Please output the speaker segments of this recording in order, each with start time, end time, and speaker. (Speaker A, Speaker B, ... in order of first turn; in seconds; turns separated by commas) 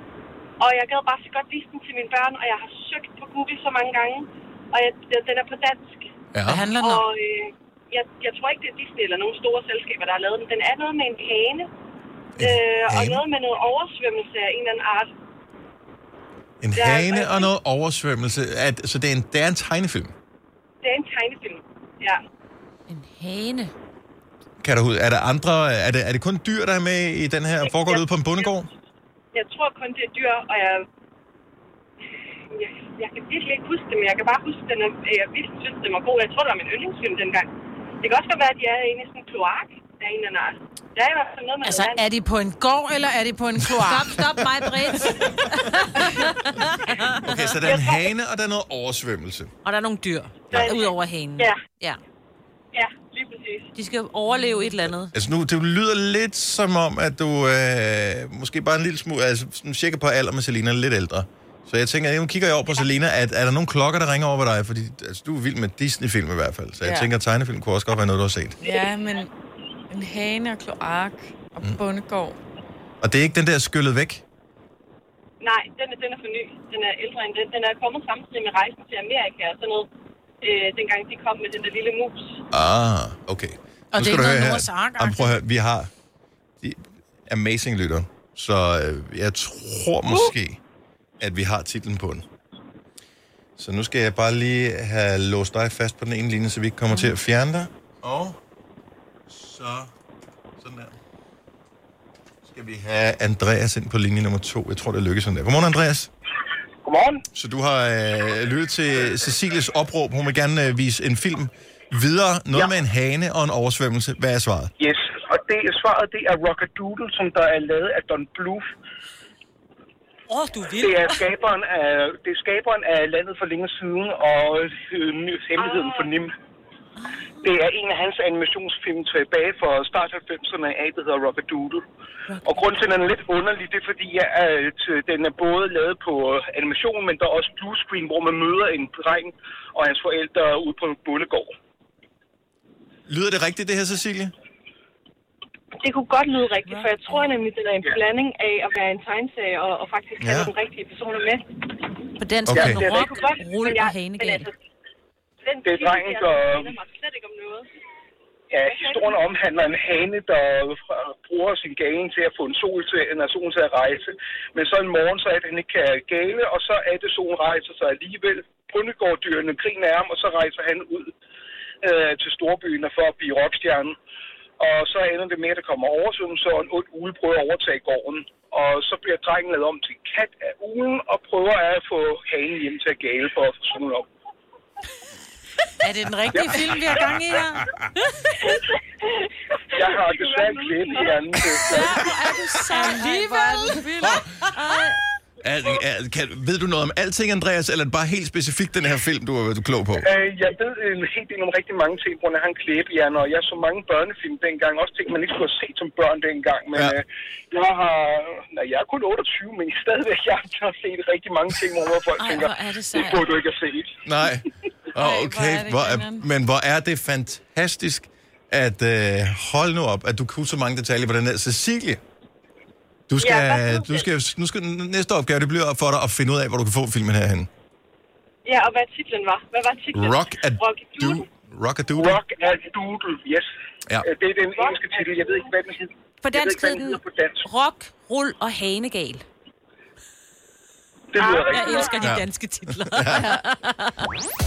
Speaker A: 0.6-6.0, Speaker B: 6.3-6.7, Speaker C: 6.5-7.0, Speaker A: 6.8-11.7, Speaker B: 12.4-13.2, Speaker A: 12.4-15.1, Speaker B: 16.6-20.1, Speaker A: 16.8-17.5, Speaker A: 20.8-22.2, Speaker D: 22.9-23.7, Speaker B: 24.6-28.7, Speaker A: 27.6-28.5, Speaker A: 29.3-30.9, Speaker A: 32.5-37.5, Speaker A: 38.0-42.0, Speaker C: 41.6-44.2, Speaker D: 43.9-47.5, Speaker B: 47.2-49.5, Speaker A: 47.6-48.1, Speaker D: 49.6-52.0, Speaker A: 50.5-51.6, Speaker A: 52.7-53.7, Speaker D: 53.8-55.1, Speaker B: 54.9-68.6, Speaker E: 66.8-67.1, Speaker E: 68.6-69.3, Speaker E: 69.9-72.4, Speaker B: 73.0-74.2, Speaker A: 75.4-79.9, Speaker A: 80.4-82.4, Speaker B: 82.5-85.9, Speaker C: 83.9-85.4, Speaker B: 86.6-90.6, Speaker B: 91.2-92.2, Speaker B: 93.6-98.4, Speaker B: 99.3-99.9, Speaker B: 100.6-101.0, Speaker B: 102.5-106.1, Speaker F: 106.8-107.2, Speaker B: 107.3-114.7, Speaker F: 114.8-118.7, Speaker D: 120.3-121.2, Speaker F: 120.7-126.3, Speaker D: 127.0-127.5, Speaker F: 127.4-131.8, Speaker D: 132.3-132.7, Speaker F: 132.4-141.5, Speaker B: 143.1-144.3, Speaker A: 145.8-151.9, Speaker B: 150.2-150.5, Speaker D: 152.2-154.5, Speaker B: 152.5-152.8, Speaker F: 152.5-153.2, Speaker A: 152.7-154.6, Speaker A: 155.4-157.7, Speaker F: 155.7-156.7, Speaker F: 158.5-171.1, Speaker A: 158.7-159.2, Speaker F: 171.8-174.0, Speaker F: 174.6-184.1, Speaker C: 185.8-187.8, Speaker F: 186.3-186.6, Speaker A: 188.4-192.1, Speaker F: 189.7-192.1, Speaker D: 191.8-193.9, Speaker C: 192.3-193.9, Speaker E: 192.7-194.2, Speaker D: 194.5-195.0, Speaker B: 195.4-200.1, Speaker F: 200.0-213.9, Speaker B: 206.7-207.0, Speaker D: 212.2-213.3, Speaker B: 214.1-222.0, Speaker E: 215.0-216.2, Speaker B: 223.1-227.5, Speaker A: 223.2-224.1, Speaker A: 228.4-231.3, Speaker B: 229.9-232.2, Speaker F: 231.9-233.5, Speaker F: 234.0-237.4, Speaker D: 236.2-239.2, Speaker F: 241.1-241.9, Speaker D: 241.2-244.0, Speaker A: 241.2-242.1, Speaker B: 242.0-243.3